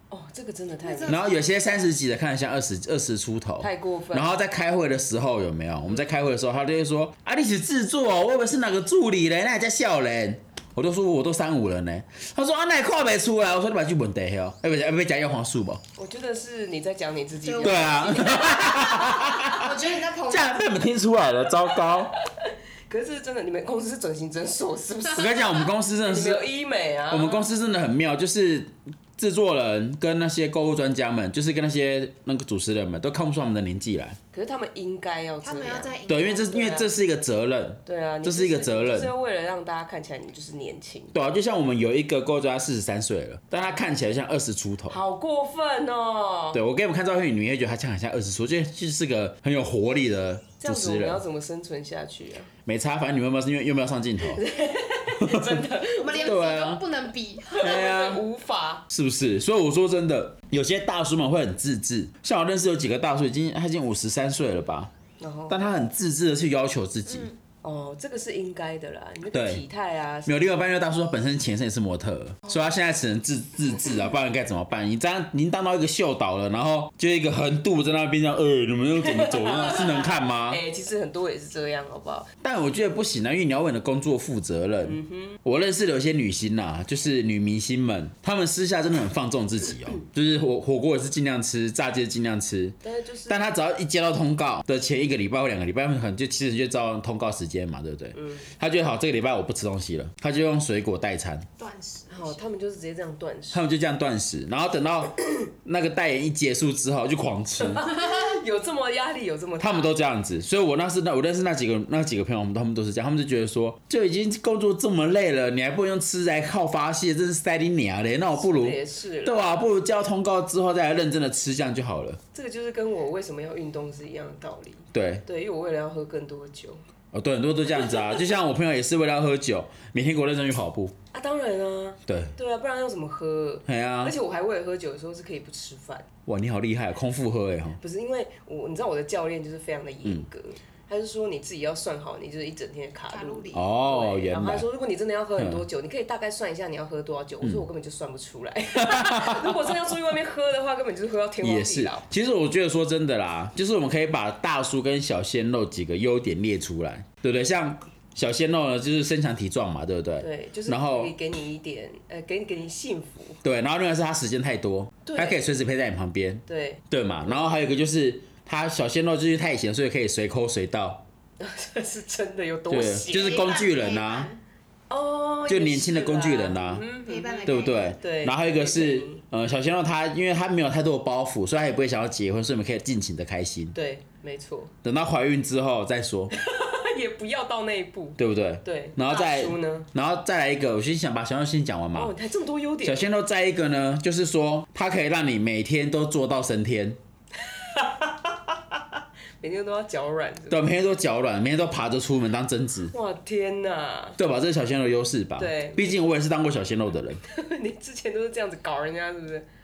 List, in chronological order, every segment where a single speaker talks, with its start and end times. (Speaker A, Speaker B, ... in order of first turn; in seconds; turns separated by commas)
Speaker A: 0.1-1.2, Speaker B: 0.8-1.9, Speaker C: 1.1-15.8, Speaker A: 3.6-4.3, Speaker A: 16.0-19.4, Speaker B: 17.4-20.6, Speaker C: 17.6-22.1, Speaker A: 22.2-27.5, Speaker C: 25.1-26.5, Speaker C: 27.1-34.2, Speaker A: 34.3-36.0, Speaker B: 35.4-36.9, Speaker C: 36.1-39.1, Speaker A: 36.6-36.9, Speaker A: 37.9-41.1, Speaker C: 41.1-45.0, Speaker A: 44.9-46.6, Speaker C: 46.5-51.2, Speaker A: 50.6-52.5, Speaker C: 52.7-54.4, Speaker A: 54.2-56.4, Speaker C: 55.2-55.6, Speaker B: 56.0-57.8, Speaker C: 56.2-56.8, Speaker A: 57.5-58.9, Speaker C: 57.5-58.2, Speaker C: 58.9-64.9, Speaker A: 65.2-65.6, Speaker C: 65.5-67.3, Speaker B: 67.1-67.3, Speaker A: 67.6-70.4, Speaker C: 69.3-69.6, Speaker C: 70.3-80.6, Speaker A: 79.0-82.3, Speaker C: 82.4-92.8, Speaker A: 84.8-85.4, Speaker A: 92.8-93.5, Speaker C: 93.3-101.5, Speaker A: 98.2-98.5, Speaker B: 101.6-102.4, Speaker A: 102.1-103.6, Speaker C: 103.5-107.9, Speaker A: 107.6-109.9, Speaker C: 109.6-122.2, Speaker A: 118.4-119.4, Speaker A: 122.3-126.8, Speaker C: 124.9-125.2, Speaker C: 127.1-130.9, Speaker A: 131.1-136.1, Speaker C: 132.1-132.3, Speaker C: 133.7-134.1, Speaker C: 136.3-137.8, Speaker A: 137.8-152.1, Speaker B: 143.1-143.7, Speaker C: 143.5-144.7, Speaker C: 145.4-145.7, Speaker C: 148.8-149.7, Speaker C: 151.4-161.1, Speaker A: 160.2-163.4, Speaker C: 163.4-171.0, Speaker A: 165.1-165.4, Speaker A: 166.5-167.5, Speaker A: 171.4-173.5, Speaker C: 172.7-174.3, Speaker B: 173.1-174.4, Speaker A: 174.9-179.2, Speaker C: 175.5-176.9, Speaker B: 177.1-178.0, Speaker C: 177.5-183.8, Speaker A: 183.7-184.7, Speaker C: 184.8-186.3, Speaker A: 186.3-189.9, Speaker C: 188.2-192.1, Speaker A: 191.9-193.1, Speaker C: 192.8-197.0, Speaker A: 197.4-198.8, Speaker A: 199.4-200.7, Speaker C: 200.5-202.9, Speaker A: 202.9-204.2, Speaker C: 204.2-207.2, Speaker A: 205.4-205.9, Speaker A: 207.2-209.5